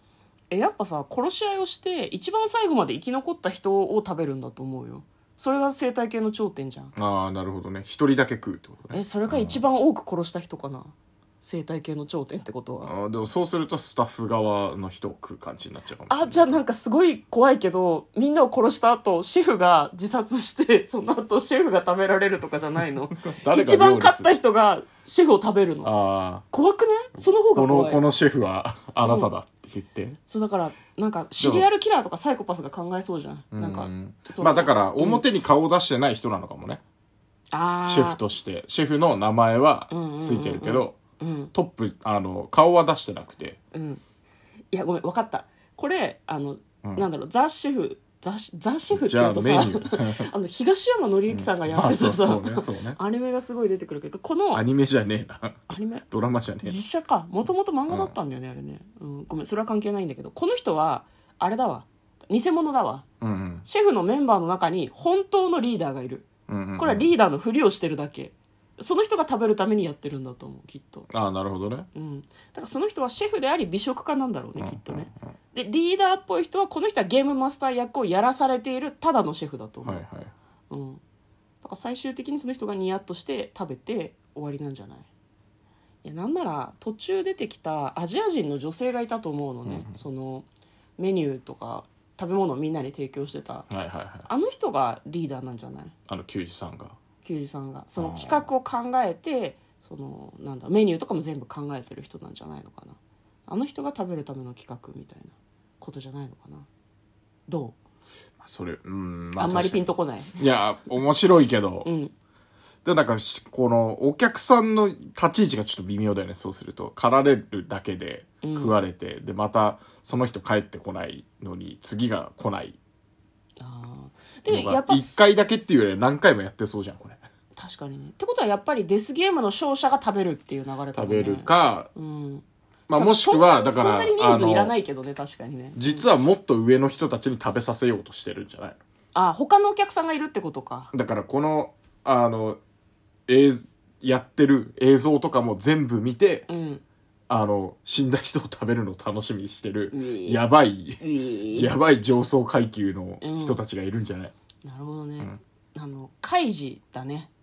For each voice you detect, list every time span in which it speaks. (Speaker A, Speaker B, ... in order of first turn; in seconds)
Speaker A: 0.5-6.9, 8.9-12.9, 16.1-25.9, 26.5-28.0, 29.0-29.3, 30.3-35.2, 37.5-38.2, 39.9-41.5, 43.7-44.0, 44.7-54.6, 55.7-56.1, 56.6-63.1, 63.6-66.3, 66.8-71.1, 72.0-80.0, 80.7-81.0, 81.6-85.1, 86.0-90.5, 91.0-93.7, 94.3-95.9, 97.2-106.7, 107.5-107.8, 109.4-110.4, 111.8-112.1, 118.4-118.8, 123.6-125.2, 127.6-136.1, 139.1-140.9, 146.5-146.8, 149.9-150.4, 151.0-151.7, 153.2-153.6, 154.6-157.3
Speaker B: 7.0-9.6, 12.8-16.6, 23.3-24.3, 25.8-26.4, 27.2-30.2, 31.4-31.7, 33.5-36.8, 37.9-41.0, 41.5-43.6, 48.9-50.3, 51.3-53.0, 54.5-56.8, 63.2-63.7, 66.5-67.1, 71.1-71.9, 74.6-75.3, 79.8-80.3, 89.7-90.0, 93.7-94.3, 96.1-97.0, 98.0-98.5, 108.4-111.9, 112.8-122.8, 124.5-127.2, 130.9-131.9, 132.9-134.7, 135.8-138.8, 140.9-142.6, 143.3-146.5, 147.3-154.3